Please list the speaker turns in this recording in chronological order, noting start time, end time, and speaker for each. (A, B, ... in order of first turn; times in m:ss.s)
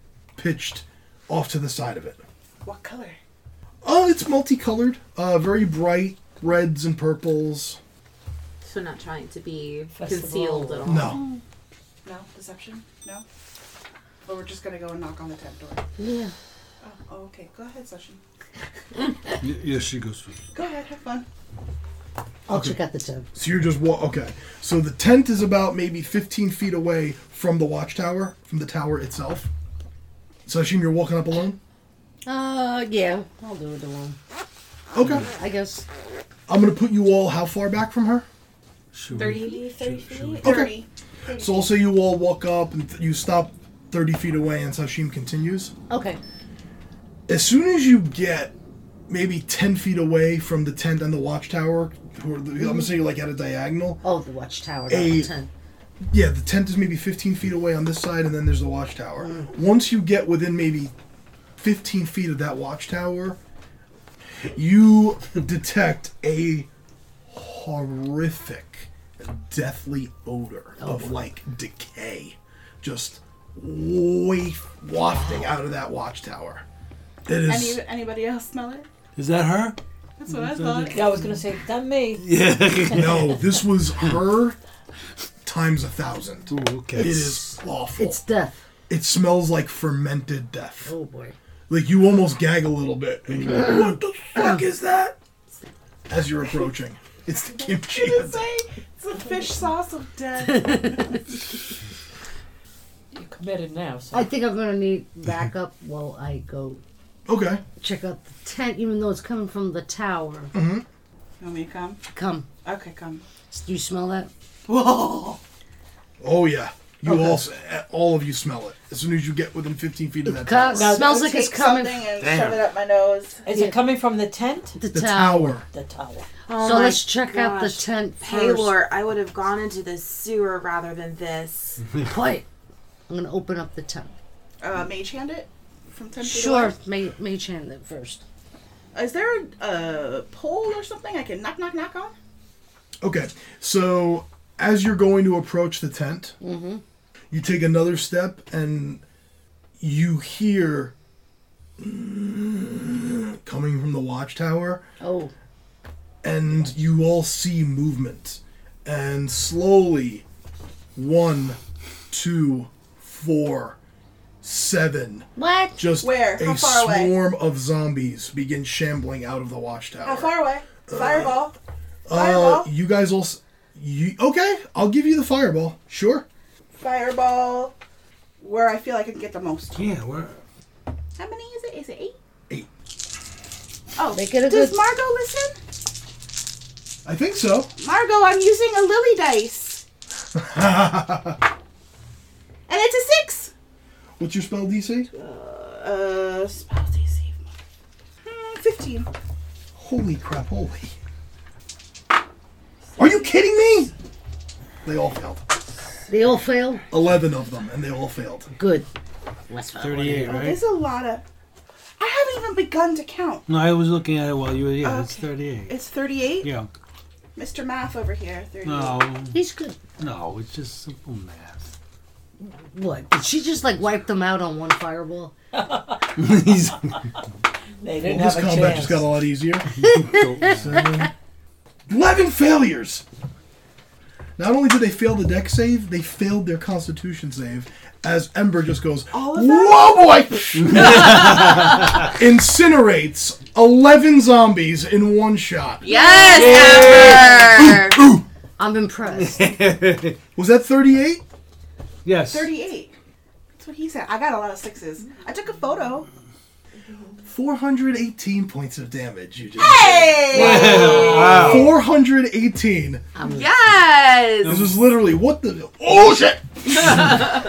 0:00.4-0:02.2 A
0:02.6-0:03.2 B
0:03.8-0:07.8 A
0:08.6-0:11.2 C
0:09.9-0:11.0 D
0:10.8-0:11.2 A
0:12.0-0:13.2 B
0:14.2-0:15.8 B
0:16.0-0:16.3 E
0:16.8-0:18.2 B
0:19.4-0:20.4 F
0:20.5-0:21.2 B
0:22.5-0:23.3 E
0:22.5-0:22.8 A
0:23.3-0:29.5 A
0:30.4-0:31.6 A
0:32.2-0:34.2 E
0:34.9-0:35.3 A
0:35.0-0:35.8 E
0:36.5-0:38.2 A
0:38.9-0:40.6 F
0:39.1-0:40.5 C
0:40.4-0:40.9 B
0:40.4-0:40.7 A
0:41.4-0:45.7 A
0:45.9-0:46.2 E
0:47.3-0:48.5 A
0:49.1-0:54.0 A
0:54.0-0:55.5 E
0:54.9-0:55.3 A
0:56.0-1:00.9 A
0:59.2-0:59.5 E
1:01.6-1:03.4 A
1:04.5-1:06.7 A
1:07.3-1:16.6 A
1:10.8-1:11.2 E
1:17.2-1:17.8 A
1:17.4-1:18.9 B
1:19.1-1:19.8 F
1:20.2-1:21.1 B
1:20.3-1:21.0 F
1:20.8-1:22.3 D
1:22.2-1:23.4 F
1:22.9-1:24.6 A
1:25.4-1:28.2 A
1:26.5-1:27.4 F
1:28.0-1:28.6 E
1:28.9-1:30.9 A
1:30.8-1:31.3 E
1:31.7-1:35.1 A
1:36.1-1:38.4 A
1:37.6-1:41.4 B
1:43.1-1:44.3 D
1:44.1-1:46.8 E
1:47.2-1:47.6 A
1:47.8-1:50.5 E
1:50.5-1:50.8 A
1:51.4-1:52.0 B
1:52.1-1:52.5 E
1:52.6-1:53.2 B
1:53.5-1:54.3 E
1:54.7-1:55.4 B
1:56.2-2:01.0 A
1:57.1-1:57.4 E
2:00.2-2:02.1 E
2:00.7-2:01.2 D
2:00.9-2:03.4 B
2:02.2-2:02.7 F
2:03.4-2:04.8 D
2:03.5-2:03.8 E
2:04.8-2:05.6 E
2:04.9-2:05.7 A
2:05.7-2:06.3 D
2:06.5-2:11.8 C
2:06.6-2:08.7 E
2:12.0-2:12.4 E
2:13.1-2:14.1 E
2:14.6-2:16.7 B
2:16.2-2:18.2 E
2:18.9-2:22.2 B
2:23.0-2:26.4 A
2:26.4-2:26.8 E
2:27.3-2:29.0 A
2:29.8-2:30.9 A
2:31.8-2:34.8 A
2:35.0-2:35.3 E
2:36.2-2:40.2 A
2:41.0-2:41.6 A
2:42.1-2:43.8 A
2:44.4-2:51.4 A
2:45.4-2:45.8 E
2:46.0-2:47.1 B
2:50.0-2:51.5 B
2:52.1-2:56.2 A
2:52.1-2:52.7 B
2:56.7-2:57.7 B
2:58.4-2:59.8 B
2:59.7-3:00.4 F
3:01.2-3:02.2 B
3:04.0-3:05.6 B
3:04.1-3:04.8 E
3:07.0-3:07.7 A
3:07.8-3:09.8 B
3:10.3-3:11.4 A
3:12.7-3:13.5 B
3:14.2-3:15.1 A
3:15.1-3:17.5 B
3:18.2-3:19.1 B
3:19.8-3:20.9 A
3:23.0-3:23.9 A
3:24.8-3:25.4 A
3:26.1-3:26.8 E
3:26.9-3:28.5 A
3:28.6-3:28.9 E
3:29.5-3:30.5 E
3:29.8-3:30.6 F
3:30.3-3:31.2 B
3:32.0-3:33.4 B
3:33.5-3:35.9 F
3:34.8-3:36.5 B
3:36.4-3:36.7 F
3:37.4-3:39.1 B
3:38.6-3:39.4 F
3:39.3-3:39.8 E
3:40.0-3:41.7 F
3:42.4-3:45.3 E
3:45.6-3:46.0 D
3:46.2-3:47.0 F
3:47.8-3:49.2 D
3:48.0-3:49.9 A
3:49.7-3:50.9 F
3:50.4-3:51.1 A
3:51.9-3:53.0 A
3:54.4-4:08.2 A
3:59.1-4:00.4 B
4:00.8-4:01.4 F
4:05.8-4:08.0 C
4:06.3-4:07.3 F
4:08.6-4:09.5 E
4:09.1-4:10.2 F
4:10.4-4:11.2 A
4:12.0-4:12.6 F
4:12.2-4:12.9 B
4:13.6-4:16.1 B
4:17.2-4:23.0 A
4:19.6-4:21.6 B
4:20.3-4:21.7 F
4:20.7-4:21.2 C
4:23.1-4:23.7 E
4:23.2-4:24.7 C
4:24.4-4:27.0 A
4:26.9-4:27.2 C